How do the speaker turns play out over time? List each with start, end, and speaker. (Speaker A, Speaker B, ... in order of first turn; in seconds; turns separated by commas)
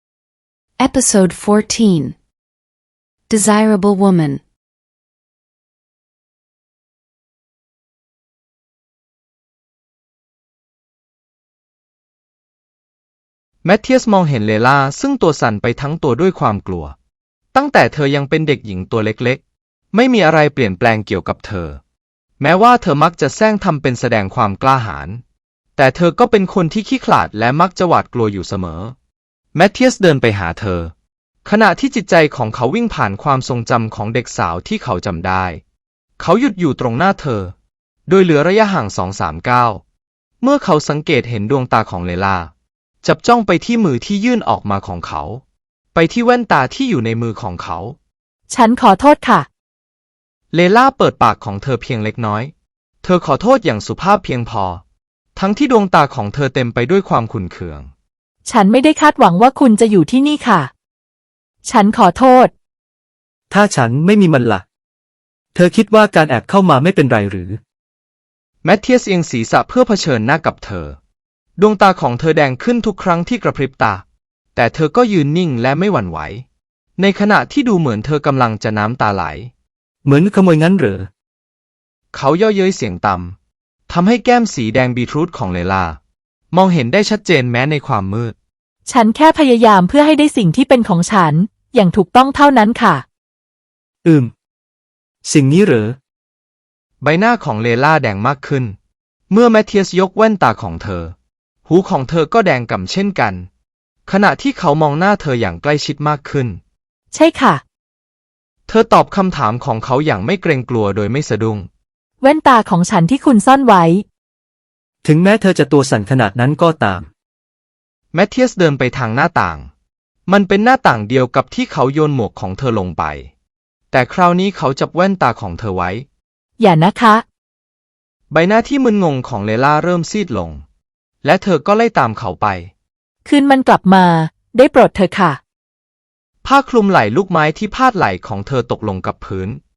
Speaker A: 0.8-2.2, Speaker A: 3.3-4.4, Speaker B: 13.6-16.9, Speaker B: 17.5-19.4, Speaker B: 19.9-21.8, Speaker B: 22.4-25.2, Speaker B: 25.8-28.9, Speaker B: 29.5-30.9, Speaker B: 31.4-35.6, Speaker B: 36.2-37.5, Speaker B: 38.1-39.8, Speaker B: 40.4-42.5, Speaker B: 43.0-45.4, Speaker B: 45.9-48.0, Speaker C: 48.5-49.5, Speaker B: 50.5-52.5, Speaker B: 53.0-54.8, Speaker B: 55.4-57.9, Speaker C: 58.4-60.7, Speaker C: 61.6-62.5, Speaker D: 63.5-64.6, Speaker D: 65.5-67.6, Speaker B: 68.6-71.0, Speaker B: 71.6-74.0, Speaker B: 74.5-76.4, Speaker B: 77.0-79.5, Speaker D: 80.0-81.1, Speaker B: 82.1-83.3, Speaker B: 83.9-86.0, Speaker B: 86.5-88.3, Speaker C: 88.8-93.0, Speaker D: 94.0-94.3, Speaker D: 95.2-96.0, Speaker B: 97.0-98.7, Speaker B: 99.3-101.1, Speaker B: 101.7-103.5, Speaker B: 104.0-106.6, Speaker C: 107.1-107.6, Speaker B: 108.7-111.7, Speaker C: 112.2-114.0, Speaker D: 115.0-117.1, Speaker B: 118.1-119.7, Speaker B: 120.3-123.3, Speaker B: 123.9-126.0, Speaker C: 126.6-127.2, Speaker B: 128.3-130.6, Speaker B: 131.2-132.7, Speaker C: 133.2-135.4, Speaker B: 136.4-139.6